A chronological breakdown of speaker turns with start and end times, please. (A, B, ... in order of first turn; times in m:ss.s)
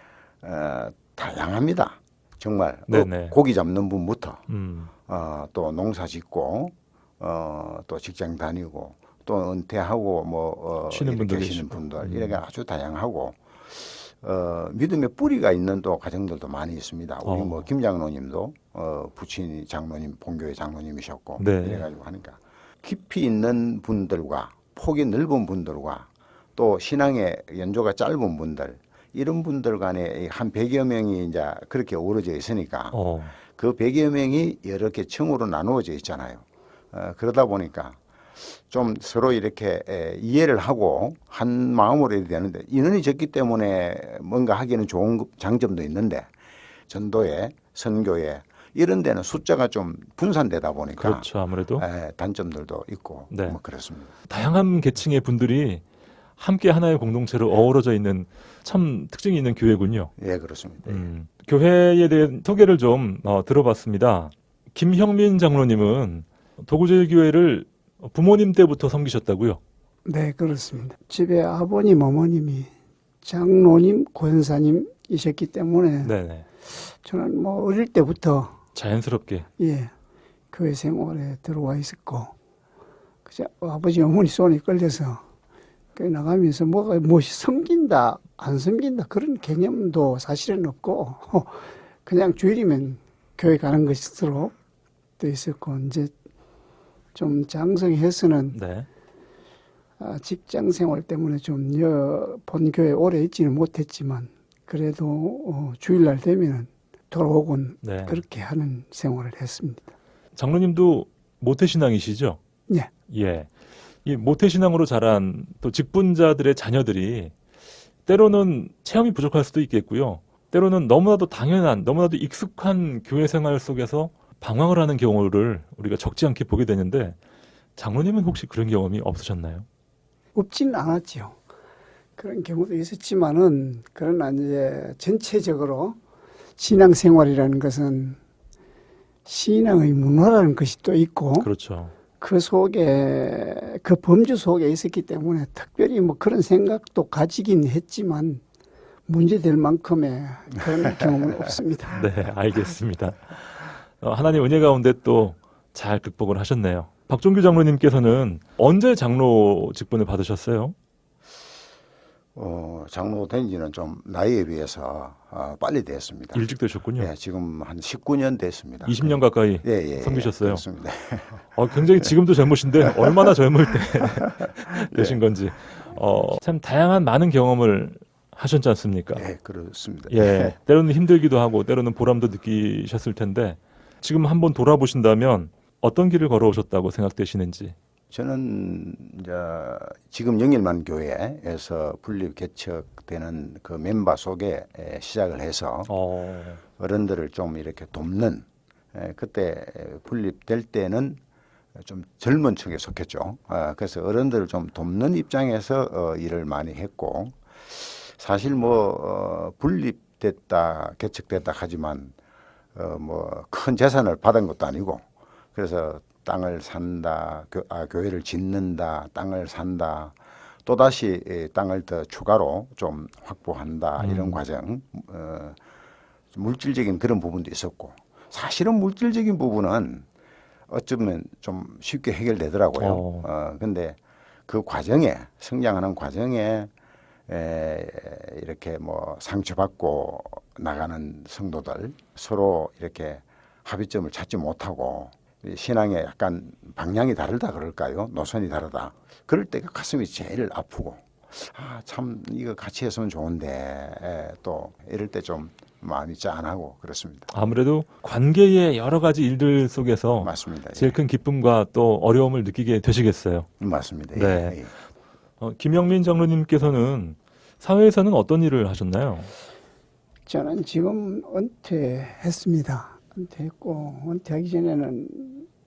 0:00.4-0:04.4 A
0:02.9-0:03.4 B
0:04.5-0:04.9 B
0:05.1-0:33.0 A
0:10.9-0:12.4 B
0:17.2-0:17.6 B
0:21.4-0:21.8 B
0:32.9-0:33.4 B
0:33.5-0:46.3 A
0:46.9-0:54.1 A
0:51.0-0:51.8 B
0:53.3-0:53.6 B
0:54.3-0:55.8 B
0:56.4-1:00.1 B
1:00.2-1:01.1 A
1:00.8-1:09.6 B
1:10.0-1:12.7 C
1:13.2-1:16.1 C
1:16.0-1:16.4 B
1:16.7-1:18.6 C
1:18.7-1:19.5 B
1:19.6-1:19.9 C
1:20.5-1:22.3 C
1:23.3-1:25.2 C
1:25.9-1:34.5 C
1:35.2-1:36.1 C
1:37.1-1:38.6 C
1:38.5-1:38.9 B
1:40.0-1:49.9 C
1:47.8-1:48.2 B
1:50.4-1:52.4 B
1:53.1-1:53.5 B
1:54.0-1:57.3 B
1:58.0-2:07.2 B
2:07.8-2:09.6 B
2:10.3-2:11.4 C
2:12.2-2:16.0 C
2:16.6-2:18.2 C
2:19.2-2:21.5 C
2:21.4-2:21.9 B
2:22.2-2:28.4 C
2:29.1-2:32.0 C
2:32.0-2:40.7 B
2:42.3-2:46.4 A
2:46.3-2:47.1 B
2:47.0-2:51.4 A
2:48.8-2:50.6 B
2:51.5-2:59.2 B
2:54.8-2:55.2 A
2:59.1-3:00.6 A
3:00.1-3:07.7 B
3:08.1-3:15.9 A
3:15.9-3:16.6 B
3:16.8-3:21.2 A
3:21.8-3:32.1 A
3:32.7-3:45.6 A
3:44.0-3:44.4 B
3:46.3-3:50.0 A
3:50.7-3:56.7 A
3:52.8-3:53.3 B
3:57.3-4:17.3 A
4:17.3-4:23.5 B
4:20.2-4:21.0 A
4:23.6-4:24.7 A
4:24.1-4:24.6 B
4:25.4-4:29.3 B
4:30.3-4:35.5 C